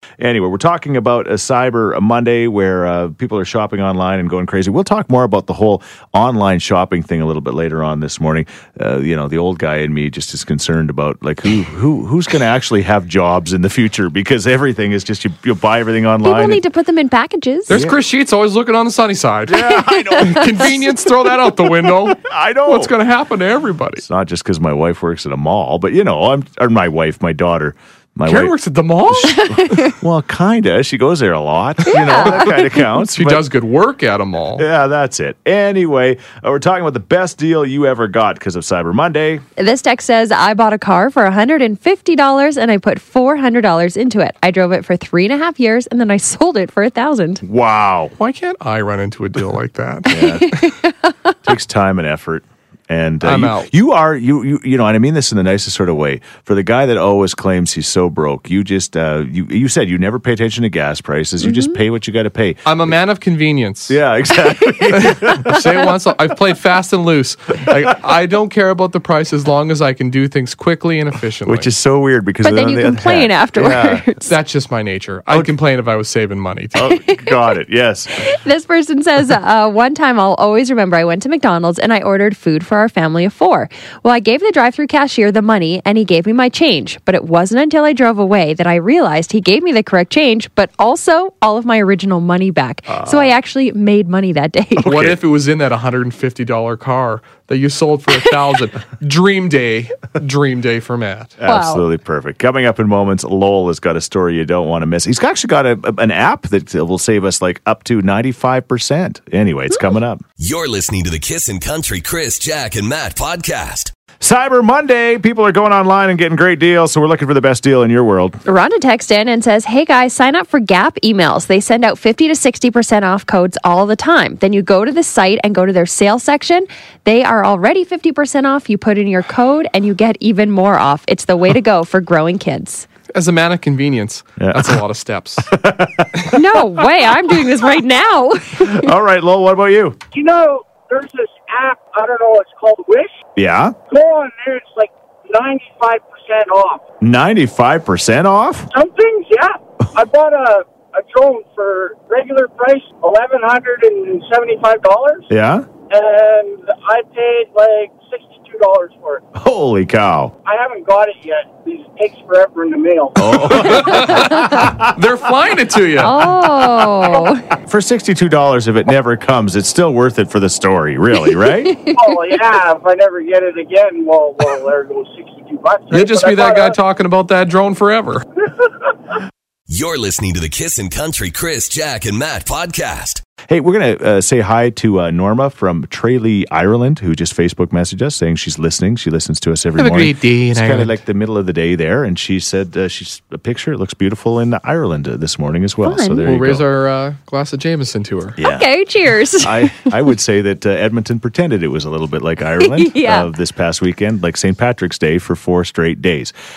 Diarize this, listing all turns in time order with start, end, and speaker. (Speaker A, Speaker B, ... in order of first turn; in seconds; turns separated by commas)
Speaker A: 0.2-16.6, Speaker B: 16.2-17.8, Speaker C: 17.7-24.0, Speaker A: 17.7-18.0, Speaker A: 19.4-20.8, Speaker B: 20.1-20.4, Speaker A: 22.1-22.9, Speaker A: 24.0-28.6, Speaker C: 28.2-29.9, Speaker A: 29.1-33.4, Speaker B: 29.4-29.7, Speaker B: 31.9-32.5, Speaker C: 33.0-34.6, Speaker A: 34.5-39.4, Speaker B: 39.6-47.4, Speaker A: 47.4-48.1, Speaker C: 48.2-50.3, Speaker A: 50.1-50.5, Speaker B: 50.2-51.1, Speaker A: 51.4-62.9, Speaker C: 53.2-53.7, Speaker B: 61.4-61.8, Speaker C: 62.6-64.0, Speaker A: 63.9-65.6, Speaker C: 64.9-71.7, Speaker A: 71.4-74.0, Speaker B: 72.4-74.3, Speaker C: 74.2-76.8, Speaker A: 76.7-78.1, Speaker B: 77.0-77.3, Speaker B: 78.2-95.0, Speaker A: 92.9-93.2, Speaker A: 94.8-95.2, Speaker C: 94.8-101.4, Speaker A: 101.4-110.2, Speaker B: 101.4-101.8, Speaker D: 110.4-113.9, Speaker A: 114.2-118.4, Speaker B: 118.4-132.9, Speaker C: 133.1-135.5, Speaker A: 134.4-134.8, Speaker A: 135.5-136.4, Speaker B: 136.3-138.9, Speaker A: 138.6-140.0, Speaker E: 140.1-143.2, Speaker A: 143.3-143.7, Speaker E: 143.9-146.8, Speaker A: 147.0-148.7, Speaker E: 148.7-155.3, Speaker A: 155.3-155.7, Speaker E: 155.9-159.2, Speaker A: 159.3-160.3, Speaker E: 160.4-163.4, Speaker A: 163.2-164.9, Speaker C: 163.4-166.2, Speaker B: 164.1-164.6, Speaker B: 166.0-167.4, Speaker A: 167.2-171.8, Speaker B: 171.7-172.0, Speaker E: 171.9-176.8, Speaker C: 175.9-178.2, Speaker D: 179.7-183.2, Speaker A: 183.4-196.6, Speaker C: 189.8-191.0, Speaker B: 195.8-196.2, Speaker C: 196.2-198.4, Speaker A: 198.4-198.7, Speaker B: 198.4-199.9, Speaker A: 199.4-206.3, Speaker B: 202.6-203.3